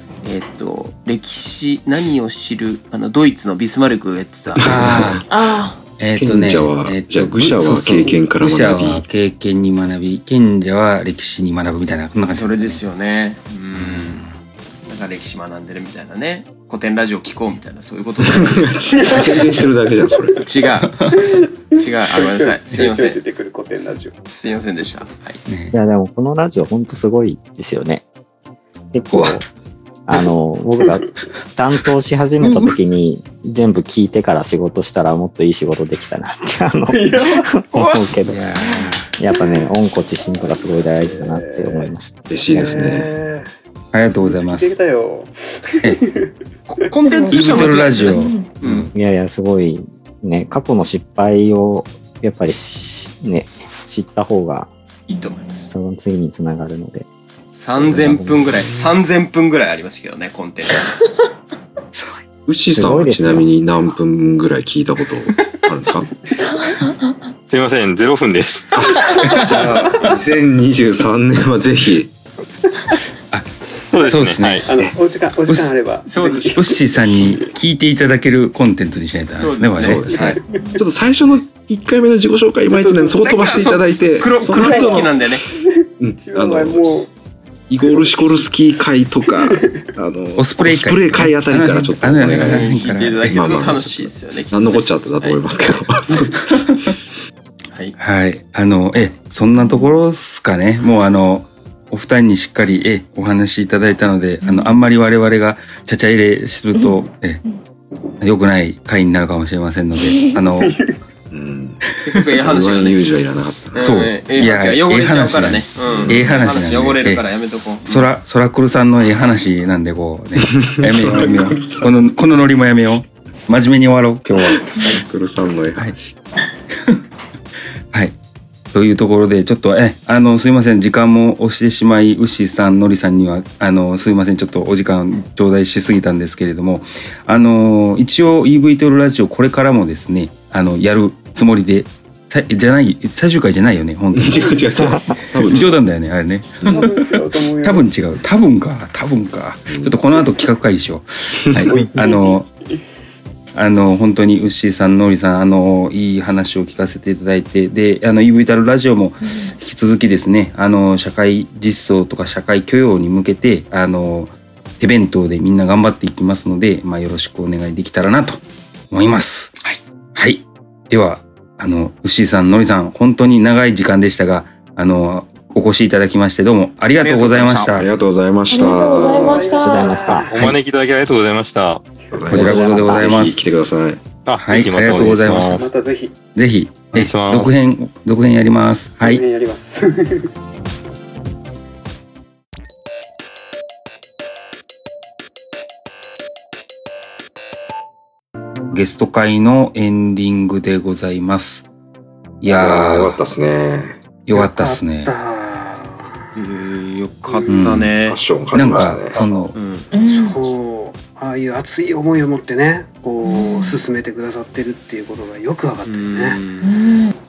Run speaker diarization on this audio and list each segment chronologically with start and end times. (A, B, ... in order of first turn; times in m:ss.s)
0:00.2-0:04.9 A
0:04.5-0:05.2 B
0:04.6-0:05.2 C
0:05.3-0:05.8 D
0:06.0-0:12.8 C
0:06.2-0:09.0 B
0:12.3-0:14.2 A
0:13.7-0:14.3 C
0:14.8-0:19.0 A
0:18.2-0:20.4 B
0:18.9-0:20.5 E
0:20.4-0:20.9 A
0:20.8-0:21.2 C
0:21.2-0:24.2 E
0:21.8-0:23.3 A
0:24.3-0:25.4 A
0:25.4-0:25.8 C
0:25.7-0:28.0 F
0:28.9-0:29.4 F
0:29.1-0:29.4 C
0:30.1-0:38.4 F
0:30.1-0:31.1 E
0:36.9-0:38.1 E
0:38.2-0:39.0 C
0:38.6-0:38.9 D
0:39.2-0:42.2 F
0:39.3-0:39.7 E
0:40.4-0:43.4 E
0:42.3-0:43.1 B
0:43.9-0:44.7 C
0:44.1-0:46.9 E
0:46.7-0:48.9 A
0:47.0-0:48.5 D
0:47.3-0:48.9 C
0:48.9-0:54.7 F
0:55.1-0:55.7 A
0:55.6-0:57.1 F
0:57.5-1:01.2 A
0:57.8-0:58.7 F
0:57.9-0:58.8 B
1:02.4-1:06.1 B
1:02.7-1:03.5 F
1:07.5-1:08.7 G
1:08.7-1:12.1 B
1:09.3-1:09.5 C
1:13.9-1:14.6 G
1:14.0-1:14.6 C
1:14.6-1:17.5 E
1:15.4-1:15.7 C
1:16.1-1:16.6 A
1:16.5-1:20.3 C
1:19.3-1:20.1 A
1:19.8-1:25.4 B
1:20.1-1:20.8 E
1:22.6-1:27.1 E
1:23.2-1:25.4 A
1:26.0-1:27.0 B
1:27.7-1:32.6 B
1:27.8-1:28.5 E
1:29.3-1:29.8 E
1:30.4-1:33.5 C
1:32.4-1:35.8 A
1:33.2-1:36.4 B
1:38.0-1:47.4 C
1:39.5-1:39.9 D
1:44.4-1:44.8 D
1:46.7-1:47.5 D
1:48.2-1:50.7 C
1:50.6-1:51.0 E
1:51.3-1:51.8 B
1:52.0-1:52.3 C
1:52.0-1:53.0 A
1:52.4-1:53.9 B
1:53.7-1:57.9 A
1:53.8-1:57.3 C
1:55.8-1:56.3 B
1:57.9-2:04.6 C
2:00.5-2:02.0 B
2:04.2-2:06.2 B
2:08.7-2:24.5 C
2:24.1-2:25.8 B
2:25.4-2:32.5 C
2:26.6-2:26.9 B
2:26.7-2:27.8 E
2:29.7-2:30.0 B
2:31.4-2:31.7 B
2:31.7-2:32.4 E
2:33.5-2:49.5 C
2:39.2-2:39.5 D
2:50.2-2:57.8 C
2:57.0-2:57.8 A
2:57.8-2:59.5 B
2:58.5-3:00.0 D
2:58.8-3:00.4 E
2:59.6-3:00.3 F
3:00.3-3:01.8 G
3:02.1-3:04.0 B
3:02.3-3:03.5 C
3:02.3-3:03.2 F
3:04.2-3:05.6 G
3:04.4-3:05.6 C
3:05.5-3:06.2 E
3:06.3-3:09.2 C
3:06.9-3:07.5 G
3:09.0-3:10.3 E
3:18.7-3:21.7 C
3:22.4-3:23.2 C
3:22.4-3:24.0 B
3:24.2-3:25.1 C
3:24.3-3:26.1 E
3:26.4-3:28.2 A
3:27.2-3:27.8 E
3:27.5-3:28.0 C
3:27.9-3:29.2 B
3:28.5-3:29.6 C
3:29.1-3:29.4 E
3:29.5-3:29.9 A
3:29.9-3:30.4 D
3:30.1-3:36.4 E
3:33.2-3:33.7 D
3:35.8-3:36.7 A
3:36.6-3:37.1 D